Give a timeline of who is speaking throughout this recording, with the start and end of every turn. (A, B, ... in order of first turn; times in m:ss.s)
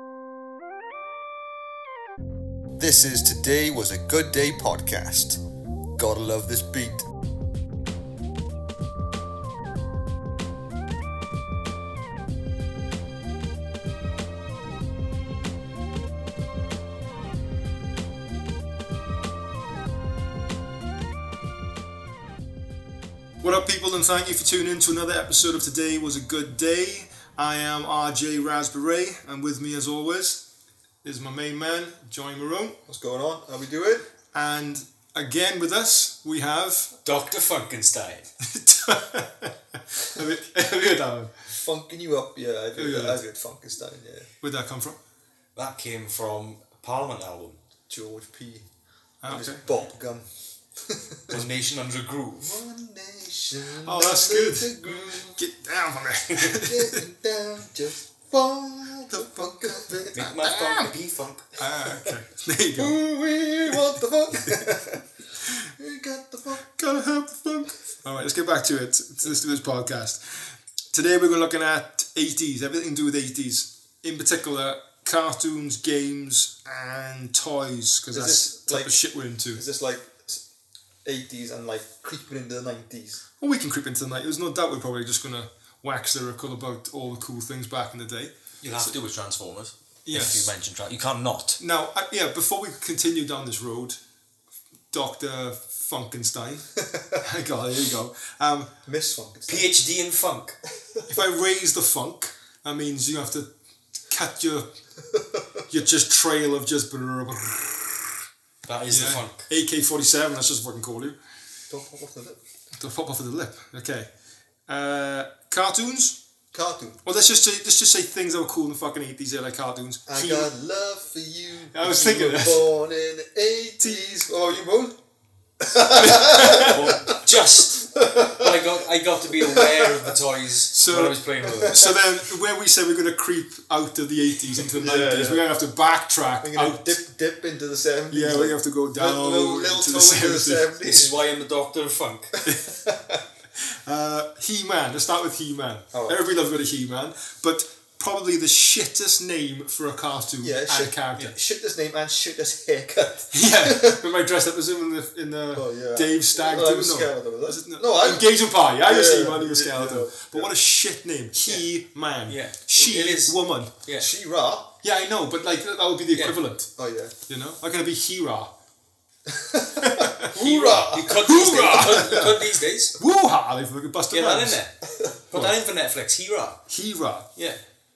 0:02.8-0:05.4 A
0:06.0-0:07.0 A
0:23.4-0:30.4 B
0:31.0-0:32.8 B
0:32.9-0:34.1 A
0:34.3-0:36.9 B
0:37.0-0:38.3 C
0:38.4-0:41.3 B
0:41.5-0:44.3 A
0:42.8-0:43.2 B
0:44.4-0:45.0 B
0:45.6-0:47.6 C
0:47.9-0:48.6 A
0:49.2-0:49.6 B
0:49.3-0:50.3 A
0:50.8-0:51.4 A
0:51.3-0:52.6 C
0:52.4-0:55.4 A
0:53.8-0:57.0 B
0:56.5-1:00.2 A
0:59.1-1:00.9 B
1:00.1-1:01.4 C
1:01.6-1:03.0 B
1:02.8-1:05.0 A
1:03.7-1:04.7 B
1:05.8-1:06.6 A
1:06.8-1:19.6 B
1:18.1-1:19.0 A
1:19.5-1:20.4 A
1:21.0-1:23.2 A
1:23.4-1:28.9 B
1:28.6-1:31.6 C
1:30.0-1:30.5 B
1:31.6-1:34.0 B
1:34.9-1:38.7 B
1:36.9-1:37.2 A
1:38.8-1:39.7 A
1:39.5-1:40.6 C
1:41.1-1:43.5 B
1:44.1-1:44.7 B
1:45.7-1:48.2 B
1:48.6-1:49.4 C
1:48.9-1:51.2 B
1:51.7-1:52.4 A
1:52.8-1:54.1 B
1:54.7-1:56.2 B
1:56.5-1:57.0 A
1:57.0-2:00.5 B
2:00.1-2:05.0 A
2:01.7-2:02.6 B
2:05.6-2:08.7 A
2:05.8-2:07.1 B
2:05.9-2:11.8 C
2:09.4-2:10.1 A
2:10.7-2:17.0 B
2:11.6-2:12.0 A
2:14.6-2:15.5 A
2:16.4-2:21.2 A
2:18.1-2:20.8 B
2:20.8-2:22.3 C
2:22.4-2:23.2 A
2:22.4-2:22.7 B
2:23.8-2:31.3 B
2:25.9-2:26.2 A
2:30.4-2:34.0 A
2:33.3-2:43.7 B
2:35.5-2:40.5 A
2:42.3-2:44.1 C
2:44.0-2:44.7 A
2:44.8-2:46.7 B
2:46.1-2:46.4 C
2:46.8-2:47.1 A
2:47.3-2:48.5 B
2:49.3-2:52.3 A
2:49.8-2:50.3 B
2:50.3-2:53.0 C
2:50.9-2:52.4 B
2:53.0-2:54.6 B
2:54.1-2:54.7 C
2:54.9-2:55.2 A
2:55.3-2:56.6 C
2:56.7-2:57.3 B
2:57.4-2:57.6 C